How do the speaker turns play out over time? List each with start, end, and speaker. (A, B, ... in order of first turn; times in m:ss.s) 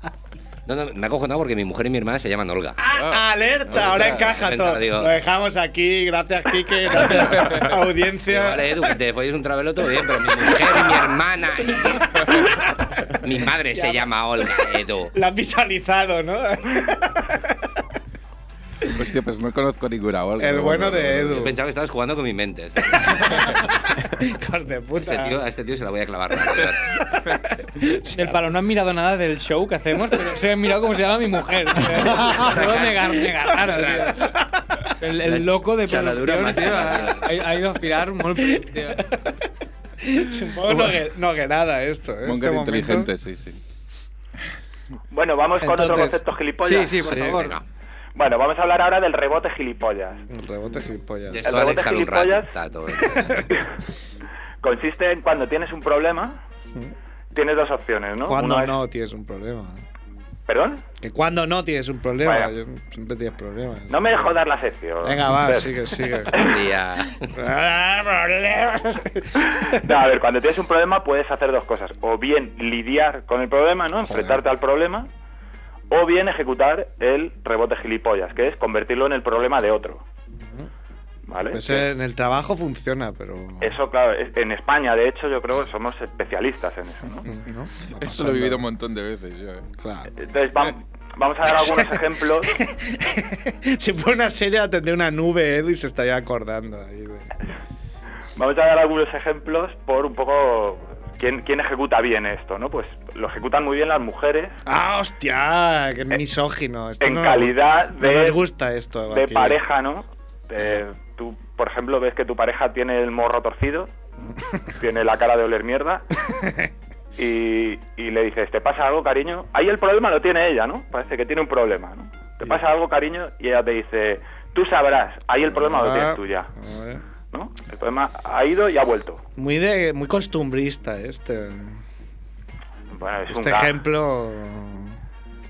0:00.6-0:02.8 A
0:02.8-0:08.7 B
0:02.9-0:03.2 C
0:03.7-0:05.1 A
0:08.3-0:12.3 A
0:13.1-0:15.1 A
0:13.7-0:14.1 B
0:15.1-0:17.5 B
0:18.8-0:21.5 C
0:20.4-0:21.5 B
0:21.4-0:23.6 A
0:22.9-0:25.4 B
0:25.0-0:27.0 A
0:27.5-0:28.4 B
0:28.1-0:34.3 D
0:31.8-0:32.5 B
0:32.3-0:33.0 A
0:33.4-0:34.4 B
0:35.0-0:39.1 D
0:35.2-0:37.3 A
0:39.0-0:39.3 B
0:40.0-0:43.1 B
0:40.7-0:41.0 C
0:42.2-0:43.6 C
0:45.1-0:47.2 E
0:45.6-0:46.2 B
0:46.6-0:47.6 D
0:47.0-0:47.4 B
0:47.2-0:47.6 A
0:48.1-0:50.2 E
0:50.3-0:51.4 B
0:51.3-0:53.5 A
0:51.4-0:52.5 E
0:53.1-0:53.5 B
0:54.6-0:56.4 E
0:57.3-0:58.8 E
0:58.2-0:59.8 B
1:00.5-1:00.8 E
1:01.0-1:04.3 B
1:02.2-1:02.5 E
1:03.9-1:06.6 E
1:05.0-1:06.4 B
1:06.3-1:07.3 A
1:07.3-1:10.0 B
1:09.4-1:15.1 E
1:14.0-1:14.4 B
1:15.9-1:20.0 E
1:21.3-1:21.9 E
1:21.5-1:23.8 B
1:23.6-1:27.3 E
1:27.2-1:28.6 B
1:27.9-1:29.7 C
1:29.8-1:30.1 B
1:30.2-1:32.5 E
1:31.5-1:37.3 B
1:38.4-1:44.5 E
1:44.6-1:49.6 B
1:47.0-1:48.4 E
1:49.1-1:53.9 E
1:54.8-1:56.0 E
1:56.3-1:56.7 B
1:57.2-2:06.5 E
2:05.5-2:07.0 B
2:07.3-2:09.2 E
2:09.4-2:11.8 B
2:12.9-2:13.8 E
2:13.3-2:15.0 B